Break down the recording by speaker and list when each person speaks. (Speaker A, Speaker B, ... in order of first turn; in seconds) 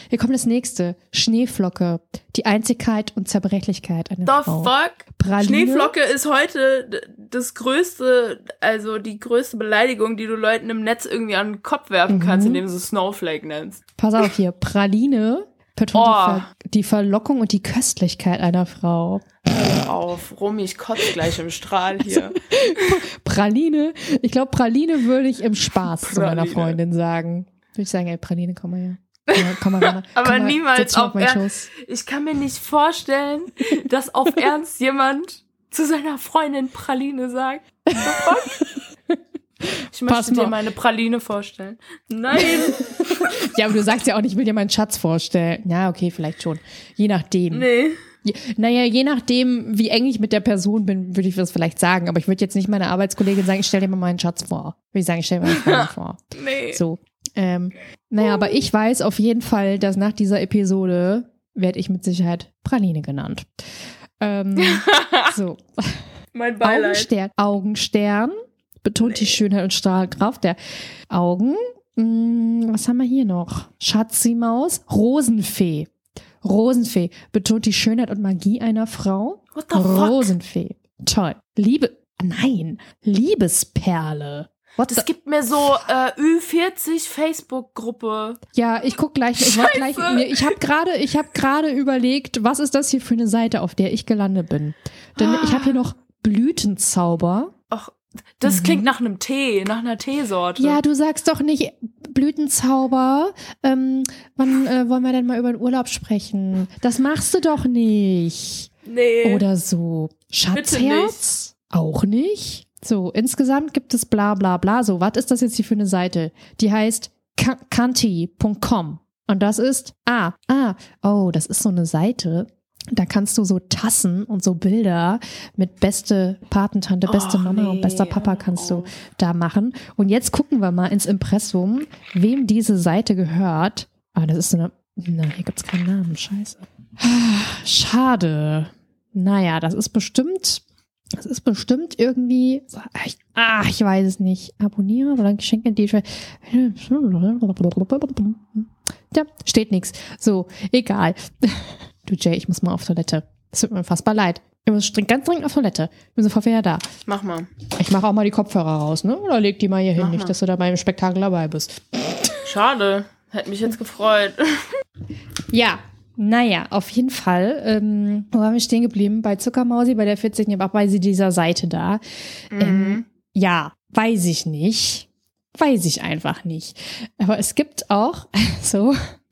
Speaker A: 0.1-5.9, 12.1-12.6, 14.0-19.8, 22.1-31.7, 37.9-40.6, 42.4-47.7, 48.2-63.6, 64.2-66.0, 66.6-70.6, 71.1-75.9, 76.4-85.1, 88.5-97.5, 98.5-98.9, 100.6-108.7, 109.2-156.9, 157.7-162.4, 165.5-172.0, 172.6-179.1
Speaker B: 4.2-13.8, 15.9-16.5, 19.5-23.0, 25.8-26.8, 29.3-38.6, 39.9-43.5, 47.5-48.0, 55.5-56.8, 64.6-65.3, 66.3-67.1, 69.0-69.4, 79.5-80.3, 84.9-88.4, 89.4-90.6, 95.2-95.8, 97.7-100.8, 108.9-109.5, 110.5-111.2, 127.1-128.9, 157.1-157.5, 160.0-160.3, 162.4-164.8, 172.5-173.0